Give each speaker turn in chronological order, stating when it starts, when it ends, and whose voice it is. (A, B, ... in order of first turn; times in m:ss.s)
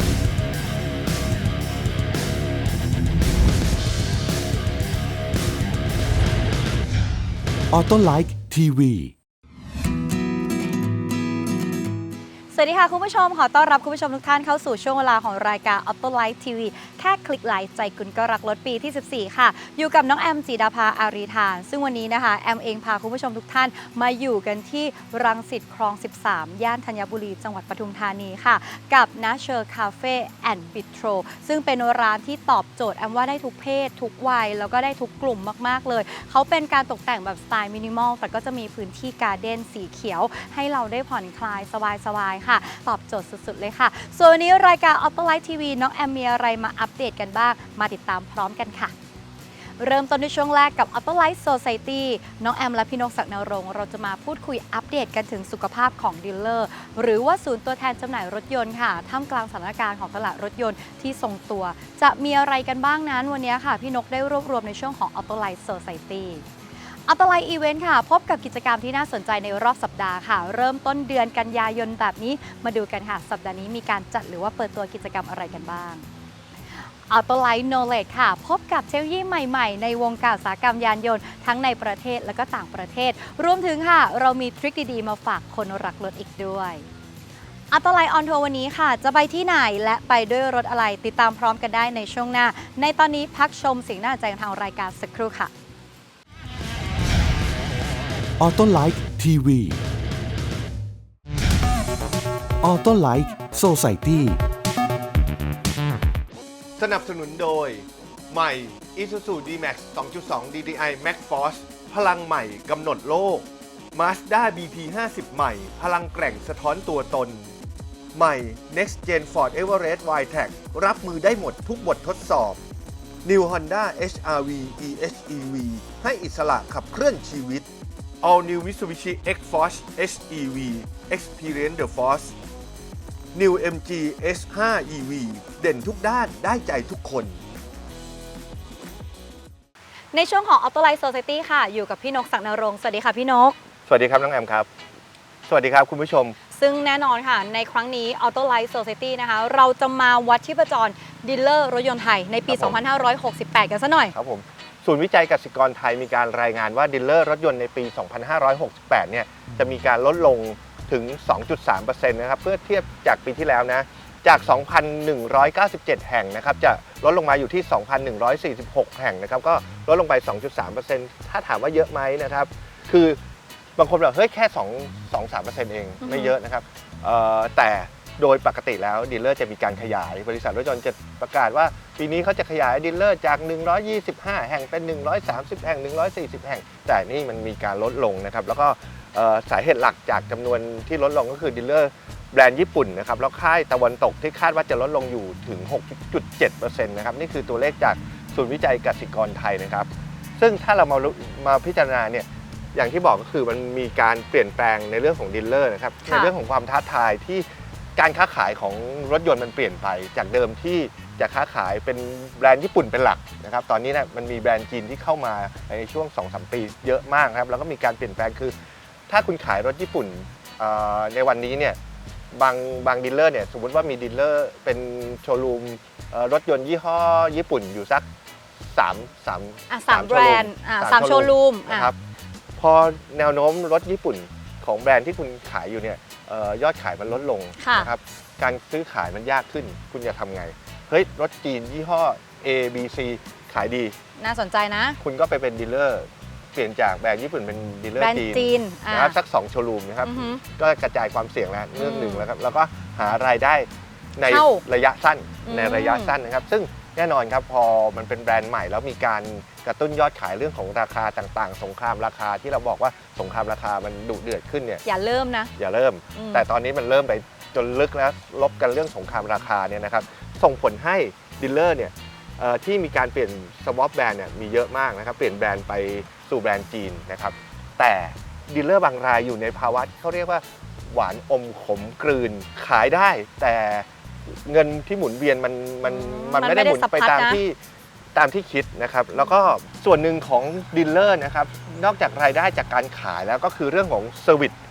0:07.7-0:09.1 A
0:12.5-0:48.9 B
0:49.8-1:06.4 B
1:07.1-1:16.1 B
1:16.8-1:26.9 B
1:27.7-1:35.5 B
1:38.4-1:39.8 A
1:42.6-1:44.4 A
1:46.8-1:57.5 C
1:58.1-2:02.6 C
2:03.2-2:07.7 C
2:08.2-2:12.4 C
2:13.3-2:17.4 C
2:20.1-2:23.6 B
2:23.9-2:24.7 C
2:25.5-2:26.4 C
2:26.6-2:34.1 B
2:32.5-2:32.8 C
2:34.1-2:53.2 C
2:53.8-3:38.6 C
2:56.0-2:56.3 B
3:26.1-3:26.3 B
3:39.1-3:41.8 C
3:42.3-3:48.1 C
3:48.6-3:52.0 C
3:49.7-3:51.9 B
3:52.6-4:04.0 C
3:57.6-3:57.9 B
4:04.2-4:05.0 B
4:05.0-4:24.8 C
4:08.0-4:09.2 B
4:10.0-4:10.4 B
4:11.8-4:12.3 B
4:14.3-4:14.6 B
4:15.4-4:16.2 B
4:24.8-4:25.5 B
4:25.6-4:47.6 C
4:26.2-4:26.4 B
4:45.8-4:47.4 B
4:48.1-4:54.6 C